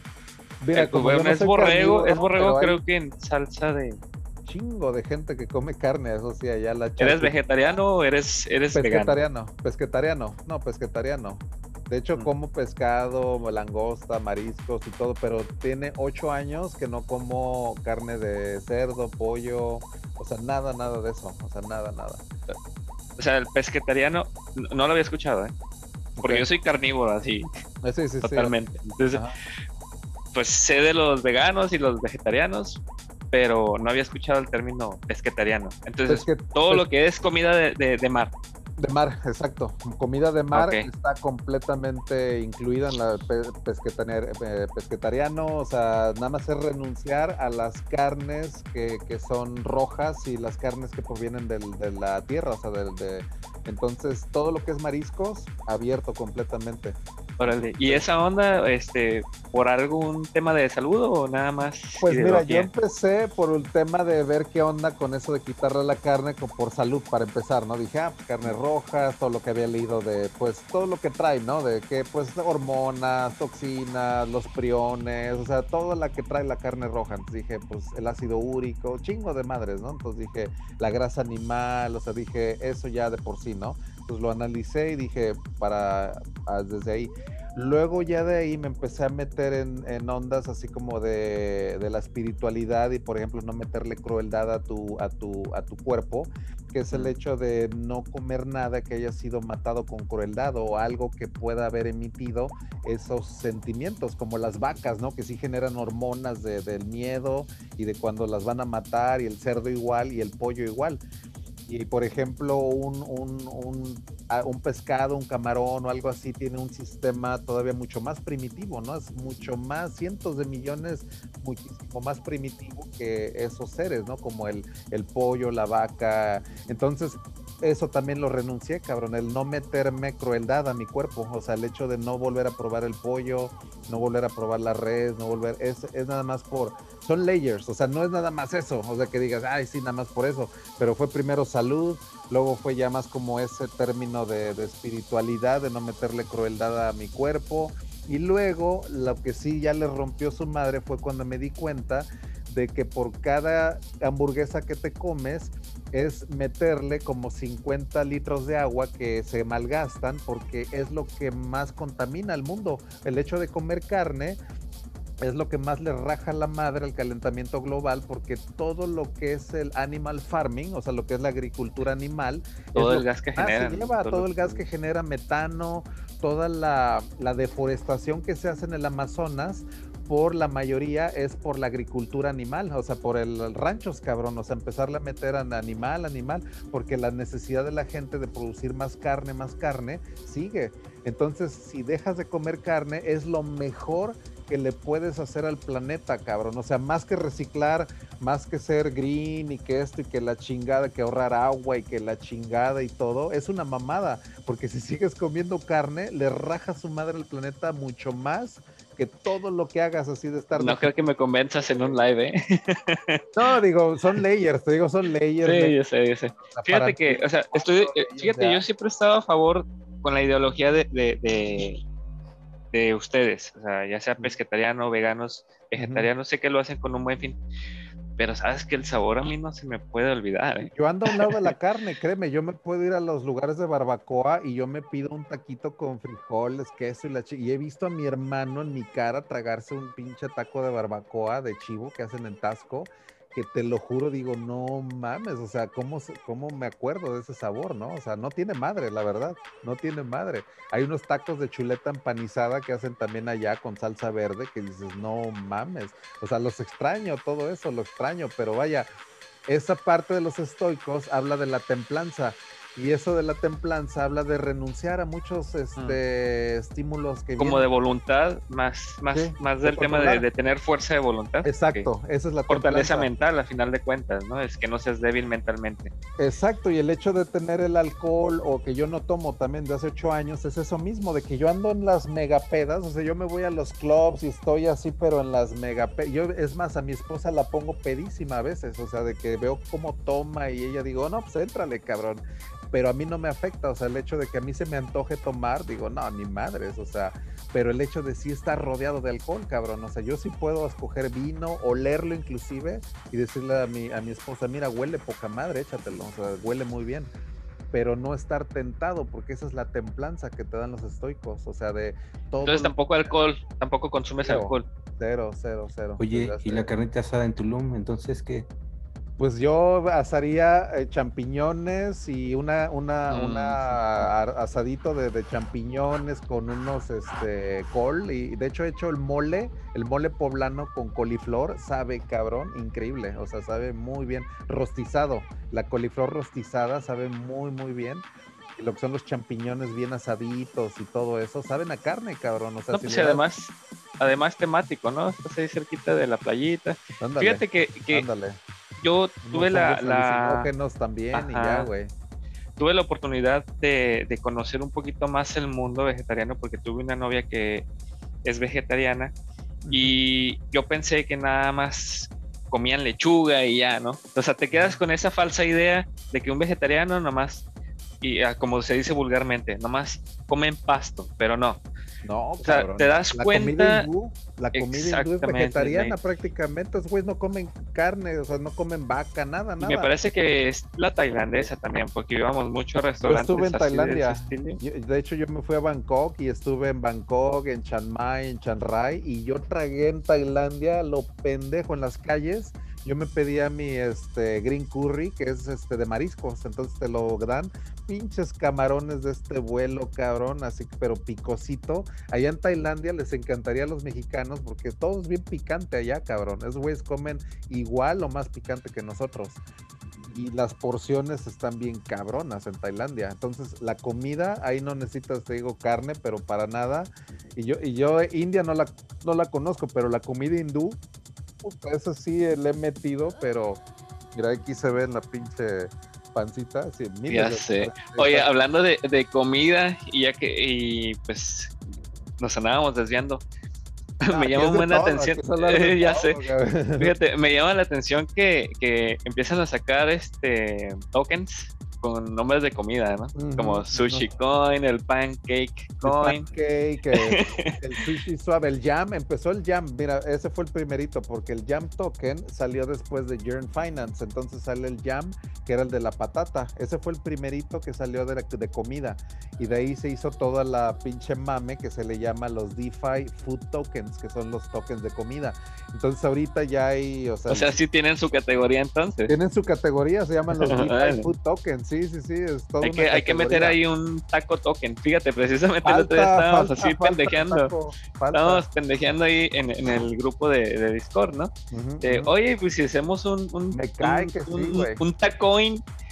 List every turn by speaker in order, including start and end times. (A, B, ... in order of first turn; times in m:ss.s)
0:00.6-0:02.8 A
0:00.7-0:04.0 B
0:04.4-0:07.3 A
0:07.0-0:09.2 B
0:08.7-0:22.2 A
0:23.2-0:25.5 B
0:26.2-0:26.5 A
0:26.2-0:27.5 B
0:27.8-0:28.5 A
0:28.2-0:29.2 B
0:30.3-0:32.8 B
0:33.3-0:38.3 B
0:36.1-0:36.8 A
0:38.8-0:58.1 A
0:40.5-0:40.9 B
0:57.4-1:02.7 B
1:02.0-1:51.0 A
1:51.7-2:44.4 A
2:45.2-3:31.0 A
2:52.8-2:54.6 B
3:30.6-3:33.2 B
3:31.7-3:32.0 A
3:33.4-3:35.8 A
3:35.4-3:41.8 B
3:36.5-3:38.7 A
3:42.7-3:47.4 B
3:45.8-3:46.1 A
3:48.2-3:51.5 B
3:50.7-4:18.9 A
4:19.5-4:27.7 A
4:27.4-4:31.9 B
4:29.1-4:30.3 A
4:31.4-4:33.1 A
4:32.5-4:35.9 B
4:36.2-5:07.1 A
5:07.7-5:12.8 A
5:12.4-5:14.7 B
5:14.2-5:16.7 A
5:16.0-5:18.5 C
5:19.2-5:38.1 A
5:23.1-5:24.1 B
5:38.6-5:43.2 A
5:42.7-5:48.1 B
5:47.0-5:48.4 A
5:48.8-5:50.5 B
5:49.2-5:51.9 A
5:51.1-5:51.7 B
5:52.6-5:57.7 B
5:58.2-5:59.1 B
5:59.6-6:00.0 A
5:59.7-6:07.4 B
6:04.5-6:04.8 A
6:08.0-6:11.6 B
6:12.0-6:19.9 A
6:12.4-6:13.9 B
6:14.5-6:16.0 B
6:19.6-6:24.6 B
6:23.0-6:49.4 A
6:50.0-7:00.8 A
7:01.4-7:03.6 A
7:04.2-7:08.3 A
7:07.1-7:11.6 B
7:12.2-7:13.2 B
7:14.0-7:16.2 B
7:14.1-7:16.9 A
7:16.8-7:26.3 B
7:23.2-7:24.1 A
7:25.8-7:47.5 A
7:26.9-7:27.6 B
7:47.3-7:49.1 B
7:49.1-7:53.6 A
7:50.4-7:51.1 B
7:52.6-7:57.5 B
7:55.6-7:58.4 A
7:58.1-8:05.6 B
8:01.5-8:02.1 A
8:03.5-8:04.8 A